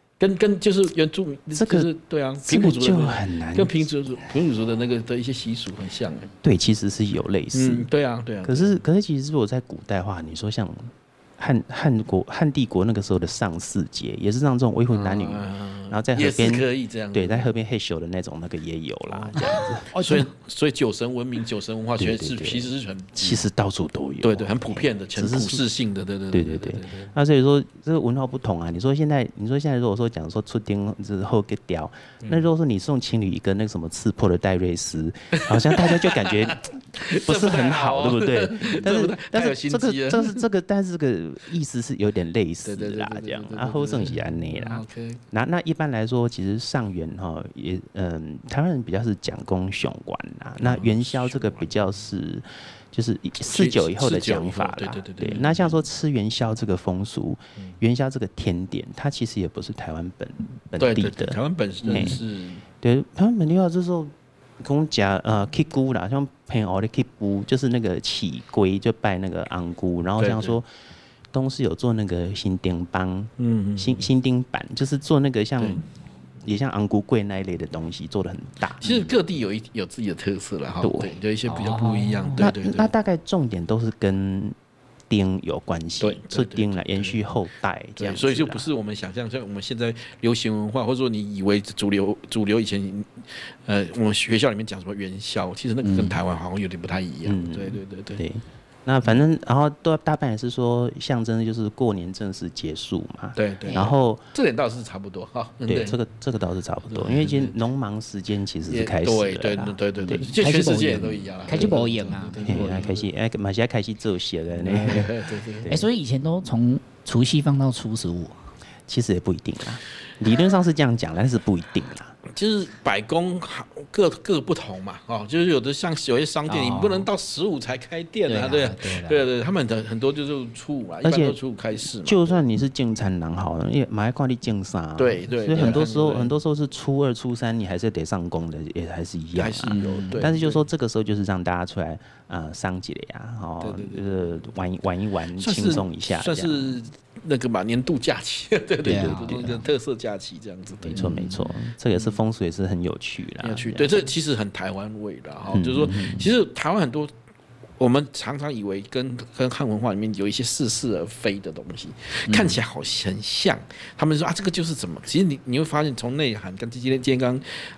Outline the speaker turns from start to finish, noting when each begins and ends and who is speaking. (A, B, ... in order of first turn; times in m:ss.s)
0:00.2-0:06.3 A
0:01.5-0:01.9 B
0:02.4-0:03.9 B
0:06.4-0:07.9 B
0:07.5-0:08.8 A
0:08.4-0:19.9 B
0:14.9-0:17.5 A
0:19.1-0:23.4 A
0:19.3-0:20.3 C
0:22.0-0:25.6 B
0:24.2-0:27.1 A
0:26.3-1:02.2 B
0:35.4-0:40.4 A
0:42.6-0:45.2 A
0:50.6-0:51.8 A
0:53.4-0:55.7 A
1:00.8-1:02.6 A
1:02.8-1:10.7 B
1:10.2-1:10.6 A
1:11.3-1:15.8 B
1:13.4-1:14.1 A
1:16.4-1:19.1 B
1:18.8-1:22.9 A
1:20.8-1:24.5 B
1:21.8-1:22.3 C
1:25.1-1:28.7 B
1:26.0-1:27.3 A
1:28.0-1:38.2 A
1:35.8-1:36.2 C
1:37.2-1:44.2 B
1:43.3-1:46.0 A
1:43.6-1:43.9 C
1:45.6-1:50.3 B
1:46.9-1:47.6 A
1:48.7-1:53.1 A
1:50.1-1:52.8 C
1:52.4-1:55.9 B
1:54.5-1:55.7 A
1:55.6-1:58.3 C
1:58.9-2:02.1 B
2:02.3-2:12.4 A
2:06.5-2:07.1 C
2:08.2-2:09.3 C
2:11.0-2:11.4 B
2:12.0-2:26.8 B
2:15.0-2:16.3 A
2:19.3-2:20.6 A
2:19.7-2:20.3 C
2:23.6-2:24.4 A
2:25.4-2:31.1 A
2:28.8-2:29.6 B
2:28.8-2:29.6 C
2:30.8-2:33.9 B
2:30.9-2:31.5 C
2:31.9-2:32.2 A
2:33.4-2:37.1 A
2:35.5-2:36.3 B
2:37.8-2:47.4 A
2:42.3-2:42.6 C